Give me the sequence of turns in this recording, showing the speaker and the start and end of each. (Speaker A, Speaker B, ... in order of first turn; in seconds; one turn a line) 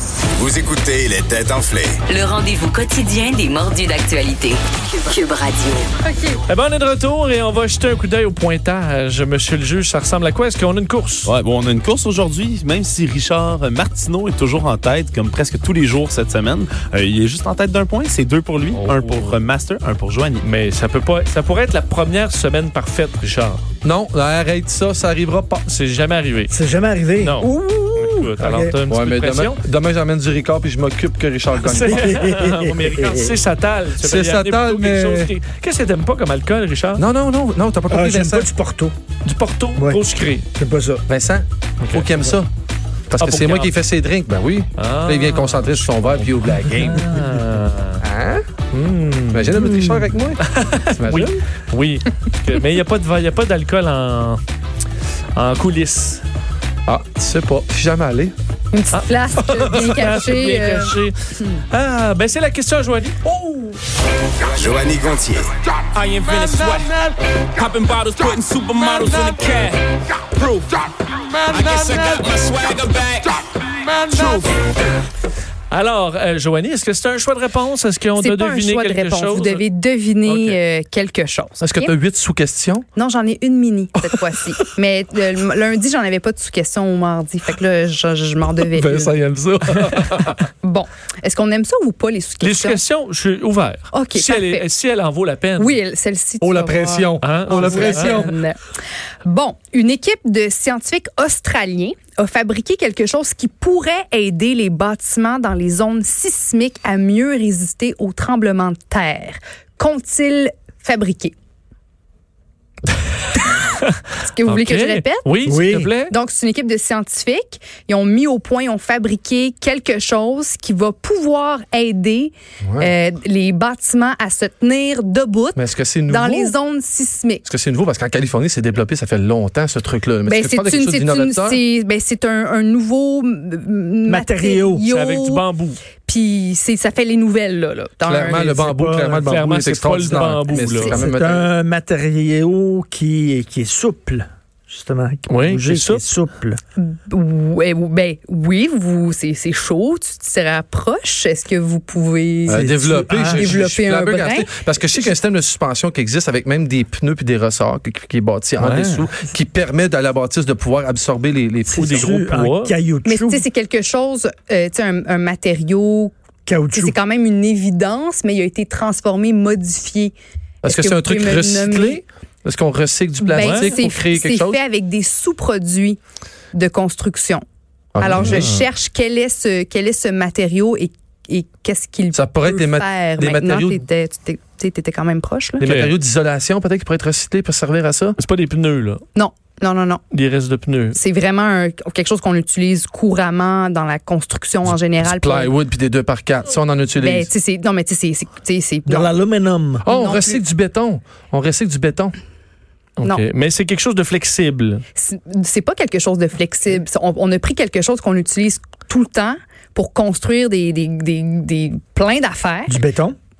Speaker A: 0.4-2.0
Speaker B: 2.1-6.3
Speaker C: 6.5-11.3
Speaker D: 11.2-20.4
Speaker C: 18.7-19.4
Speaker C: 20.4-23.6
Speaker E: 23.8-25.6
Speaker C: 25.6-26.5
Speaker F: 26.5-28.8
Speaker C: 27.2-29.6
Speaker E: 28.9-32.2
Speaker C: 31.5-37.0
Speaker F: 31.7-33.4
Speaker E: 34.0-35.3
Speaker E: 37.0-38.5
Speaker F: 37.9-38.9
Speaker C: 39.2-40.4
Speaker F: 39.8-40.0
Speaker F: 40.5-41.1
Speaker E: 41.1-42.5
Speaker C: 41.8-42.1
Speaker C: 43.1-43.8
Speaker E: 43.1-47.1
Speaker C: 44.8-48.0
Speaker F: 47.0-47.4
Speaker E: 48.0-48.4
Speaker C: 48.7-49.9
Speaker E: 49.3-51.3
Speaker C: 50.4-54.4
Speaker C: 55.4-56.2
Speaker E: 56.9-58.3
Speaker G: 58.7-61.6
Speaker C: 58.9-61.1
Speaker E: 59.5-60.1
Speaker C: 61.7-63.1
Speaker E: 63.2-63.8
Speaker A: 64.4-65.5
Speaker H: 65.9-70.9
Speaker H: 71.5-74.4
Speaker C: 75.7-79.6
Speaker G: 78.2-81.9
Speaker C: 80.2-80.6
Speaker E: 81.6-82.9
Speaker G: 82.9-89.1
Speaker E: 84.1-84.7
Speaker E: 88.7-90.4
Speaker G: 90.6-92.8
Speaker C: 92.4-95.8
Speaker G: 93.9-94.7
Speaker G: 95.6-98.5
Speaker E: 96.4-98.3
Speaker C: 97.2-98.2
Speaker G: 99.2-111.3
Speaker G: 114.2-115.3
Speaker C: 114.4-116.1
Speaker F: 115.5-115.9
Speaker G: 116.1-127.4
Speaker E: 122.6-122.9
Speaker E: 125.5-126.5
Speaker E: 127.4-131.6
Speaker G: 130.2-135.4
Speaker F: 134.1-134.9
Speaker C: 134.9-135.8
Speaker G: 136.0-138.6
Speaker E: 138.0-141.5
Speaker F: 138.3-139.3
Speaker C: 139.2-140.9
Speaker G: 140.8-141.1
Speaker F: 140.9-146.6
Speaker C: 145.3-146.0
Speaker G: 146.8-152.6
Speaker F: 152.5-153.6
Speaker E: 152.5-162.1
Speaker G: 153.2-154.5
Speaker C: 158.6-159.0
Speaker F: 161.7-163.4
Speaker C: 161.8-162.7
Speaker G: 163.0-166.1
Speaker F: 166.5-167.0
Speaker G: 166.7-172.0
Speaker E: 170.6-174.6
Speaker G: 173.2-176.0
Speaker C: 173.4-173.8
Speaker G: 176.5-177.4
Speaker E: 177.9-178.4
Speaker G: 178.0-185.6
Speaker C: 178.1-178.6
Speaker E: 182.1-183.8
Speaker E: 185.6-188.2
Speaker C: 185.6-185.9
Speaker C: 188.2-189.0
Speaker G: 189.1-190.0
Speaker C: 190.1-191.0
Speaker G: 190.9-195.5
Speaker E: 194.7-197.3
Speaker G: 197.0-199.2
Speaker F: 198.9-199.9
Speaker E: 199.8-202.1
Speaker G: 199.8-200.4
Speaker C: 203.0-204.8
Speaker G: 204.9-212.8
Speaker F: 212.7-213.2